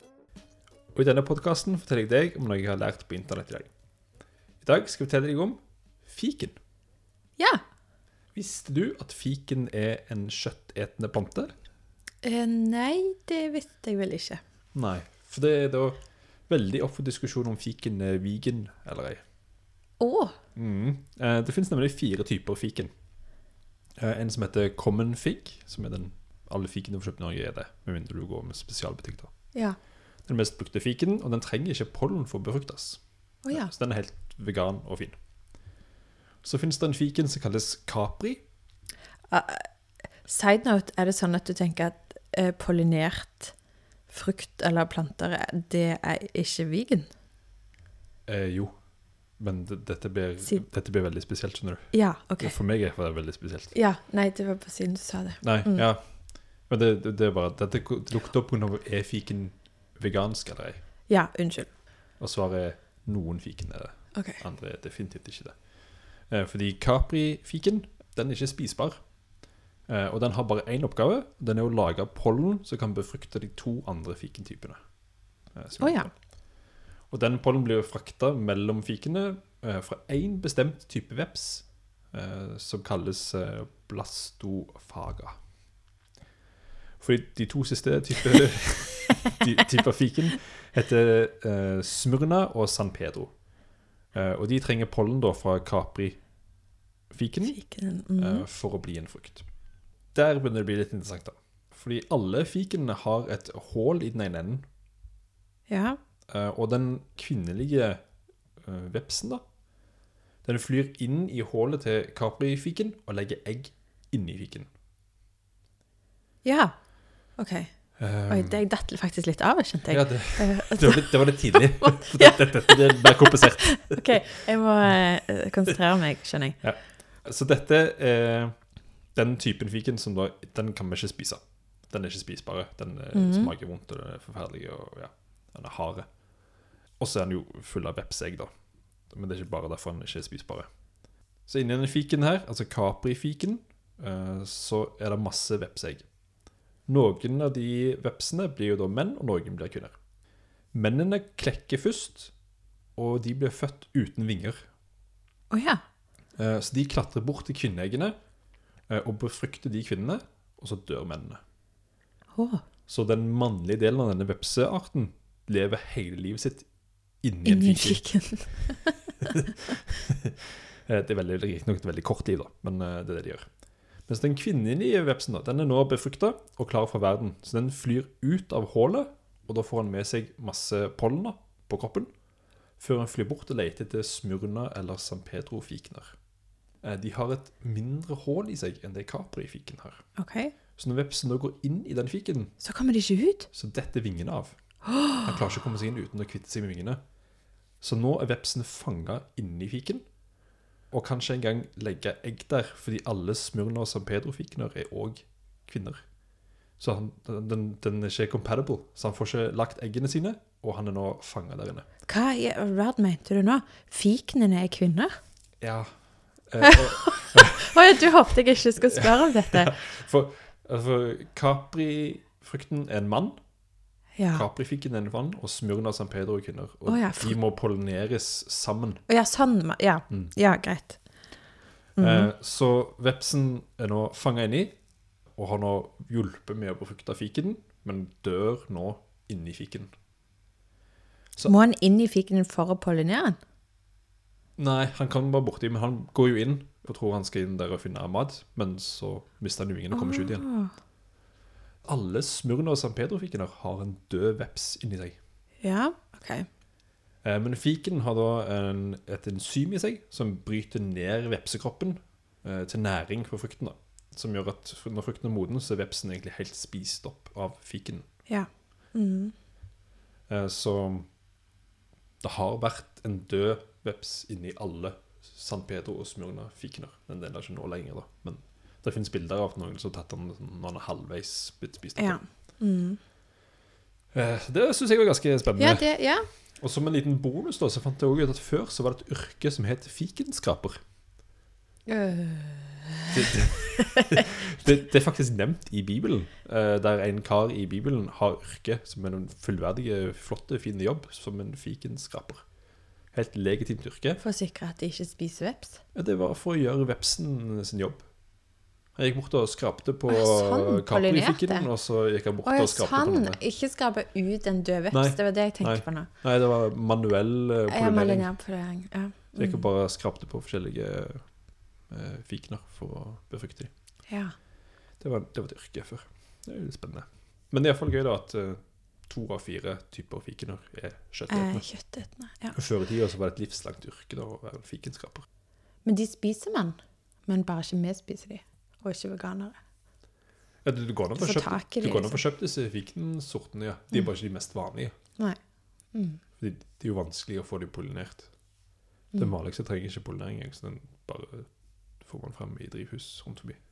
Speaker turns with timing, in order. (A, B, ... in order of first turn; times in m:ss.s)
0:00.9-0:03.7 A
0:04.6-0:06.6 A
0:07.4-0:07.6 B
0:08.3-0:11.5 A
0:12.2-0:14.4 B
0:14.7-0:19.2 A
0:20.0-0:20.3 B
0:20.6-0:22.9 A
0:24.0-0:29.3 A
0:30.3-0:35.2 A
0:33.4-0:33.7 B
0:36.4-0:38.4 A
0:39.3-0:39.7 B
0:40.2-0:43.5 B
0:44.1-0:47.1 B
0:48.3-0:48.7 A
0:49.4-0:53.7 A
0:51.9-0:52.6 B
0:53.7-0:55.8 B
0:55.4-0:56.1 A
0:56.6-1:00.8 A
1:01.1-1:01.7 B
1:02.2-1:05.6 A
1:04.1-1:04.4 B
1:06.3-1:09.0 A
1:09.9-1:14.8 A
1:15.5-1:16.1 A
1:15.8-1:16.1 B
1:17.1-1:25.4 A
1:27.0-1:33.3 A
1:34.1-1:36.2 A
1:37.1-1:37.6 A
1:37.4-1:38.4 B
1:38.2-1:39.4 A
1:40.1-1:44.6 A
1:45.7-1:46.0 B
1:46.3-1:48.0 A
1:48.6-1:49.4 A
1:50.4-1:54.7 A
1:56.4-1:56.7 B
1:57.4-1:57.7 B
1:58.0-1:58.6 A
1:58.3-2:06.6 B
1:59.9-2:04.4 A
2:06.6-2:08.5 A
2:09.1-2:16.1 A
2:13.1-2:13.5 B
2:17.0-2:18.5 A
2:19.1-2:20.7 A
2:21.5-2:26.0 A
2:26.9-2:29.9 A
2:30.7-2:32.3 A
2:33.0-2:34.6 A
2:35.5-2:35.8 B
2:36.4-2:38.2 A
2:38.9-2:41.4 A
2:42.3-2:42.6 B
2:42.9-2:46.7 A
2:47.2-2:48.0 A
2:47.4-2:49.1 B
2:49.2-2:53.4 A
2:54.1-3:02.1 A
3:02.8-3:06.1 A
3:06.8-3:10.0 A
3:10.2-3:10.5 B
3:10.8-3:12.5 A
3:12.6-3:13.5 B
3:13.5-3:14.6 A
3:14.9-3:15.3 B
3:15.2-3:17.0 A
3:17.8-3:20.0 A
3:20.9-3:26.0 A
3:26.8-3:31.8 A
3:32.1-3:35.1 B
3:35.6-3:35.9 A
3:36.5-3:37.8 A
3:36.6-3:39.7 B
3:39.0-3:43.4 A
3:44.2-3:44.4 B
3:44.3-3:49.0 A
3:46.8-3:47.4 B
3:49.1-3:51.0 B
3:52.0-3:52.3 B
3:52.0-3:54.8 A
3:55.3-3:59.9 A
4:01.4-4:03.4 B
4:04.6-4:10.4 A
4:09.9-4:10.7 B
4:11.8-4:15.2 A
4:15.6-4:16.5 B
4:17.2-4:28.0 A
4:28.3-4:29.3 B
4:30.3-4:31.1 A
4:32.2-4:42.2 A
4:42.0-4:43.0 B
4:44.1-4:45.8 A
4:45.6-4:46.3 B
4:46.6-4:50.8 A
4:51.9-4:54.2 B
4:53.1-5:02.4 A
5:03.1-5:04.2 A
5:04.2-5:05.8 B
5:05.9-5:08.0 A
5:09.0-5:13.4 A
5:10.1-5:11.7 B
5:12.4-5:16.1 B
5:14.9-5:18.3 A
5:17.7-5:19.6 B
5:19.4-5:21.2 A
5:21.9-5:23.7 A
5:24.1-5:24.3 B
5:25.0-5:31.7 A
5:31.3-5:32.5 B
5:32.5-5:35.2 A
5:35.8-5:39.6 B
5:40.6-5:44.9 A
5:41.2-5:42.2 B
5:45.9-5:46.2 B
5:46.4-5:48.3 A
5:49.1-5:51.5 A
5:52.0-5:53.6 A